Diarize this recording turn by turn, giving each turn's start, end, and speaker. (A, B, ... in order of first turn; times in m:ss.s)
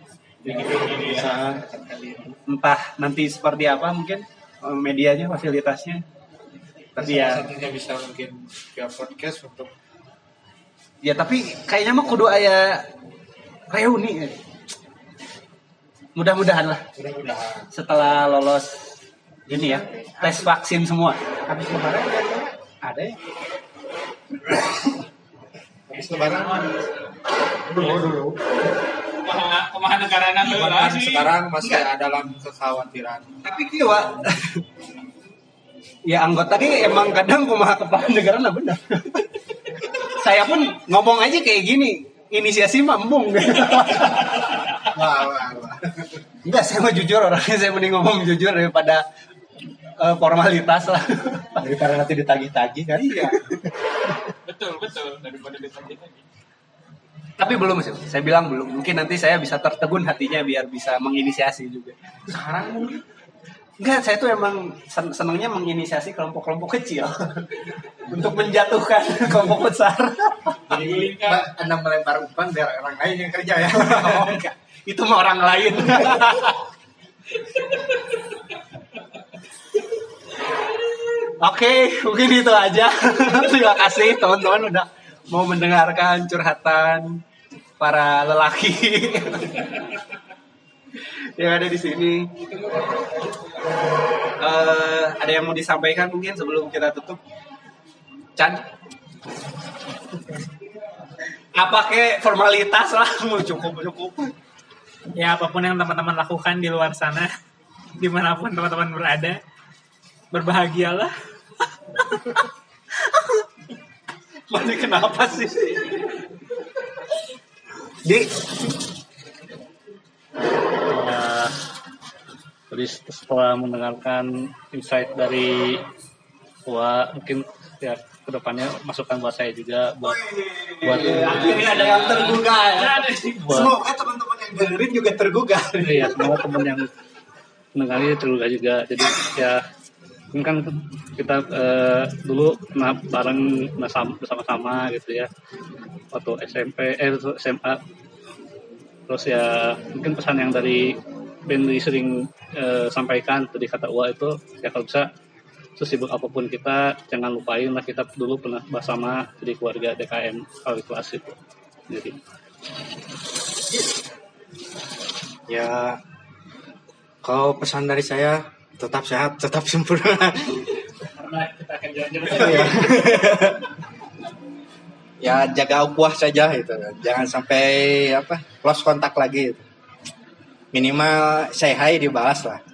0:00.5-0:01.1 A
0:00.5-0:01.2 B
0:01.0-0:01.6 C
0:01.4-0:02.4 D
0:02.5-0:06.0 A
0:07.0-0:07.4 A
0:07.0-0:09.7 D
0:11.0-0:12.8 A
0:13.7-0:14.4 A
0:16.1-0:16.8 A
0:17.0-0:17.7 D
0:17.7-0:18.8 A
0:19.5-0:21.2 A
0:19.6-0:20.4 C
0:21.5-0:22.5 C
0:22.8-0:23.1 A
0:25.9-0:26.7 D
0:27.7-0:28.4 C
0:29.2-0:31.3 B
0:30.4-0:33.2 D
0:33.4-0:34.6 A
0:36.0-0:39.3 A
0:40.0-0:44.5 A
0:44.9-0:46.2 C
0:46.4-0:49.0 A
0:50.0-0:51.6 A
0:51.6-0:53.4 C
0:53.0-0:53.3 A
0:54.4-0:56.2 B
0:57.4-1:02.0 A
1:02.3-1:03.0 C
1:03.8-1:10.6 A
1:10.7-1:14.4 C
1:10.7-1:11.5 B
1:13.8-1:16.6 A
1:21.4-1:27.2 A
1:27.8-1:29.7 A
1:31.4-1:32.4 A
1:34.4-1:37.2 A
1:38.4-1:38.6 A
1:41.5-1:44.3 A
1:45.2-1:47.3 E
1:48.0-1:49.4 E
1:50.3-1:51.1 E
1:54.5-1:56.0 A
1:58.0-1:58.4 A
2:00.9-2:01.5 F
2:02.7-2:05.8 F
2:06.7-2:10.2 F
2:10.0-2:16.2 A
2:10.8-2:11.6 F
2:11.4-2:13.7 B
2:13.5-2:13.7 F
2:15.8-2:16.9 F
2:17.7-2:19.6 F
2:20.3-2:25.3 F
2:26.1-2:27.8 F
2:29.1-2:35.1 F
2:35.8-2:41.4 F
2:41.9-2:42.2 F
2:45.5-2:46.0 C
2:47.2-2:50.5 C
2:51.2-2:52.2 E
2:52.2-2:53.6 C
2:52.2-2:52.8 A
2:55.2-2:59.6 C
3:00.7-3:02.6 C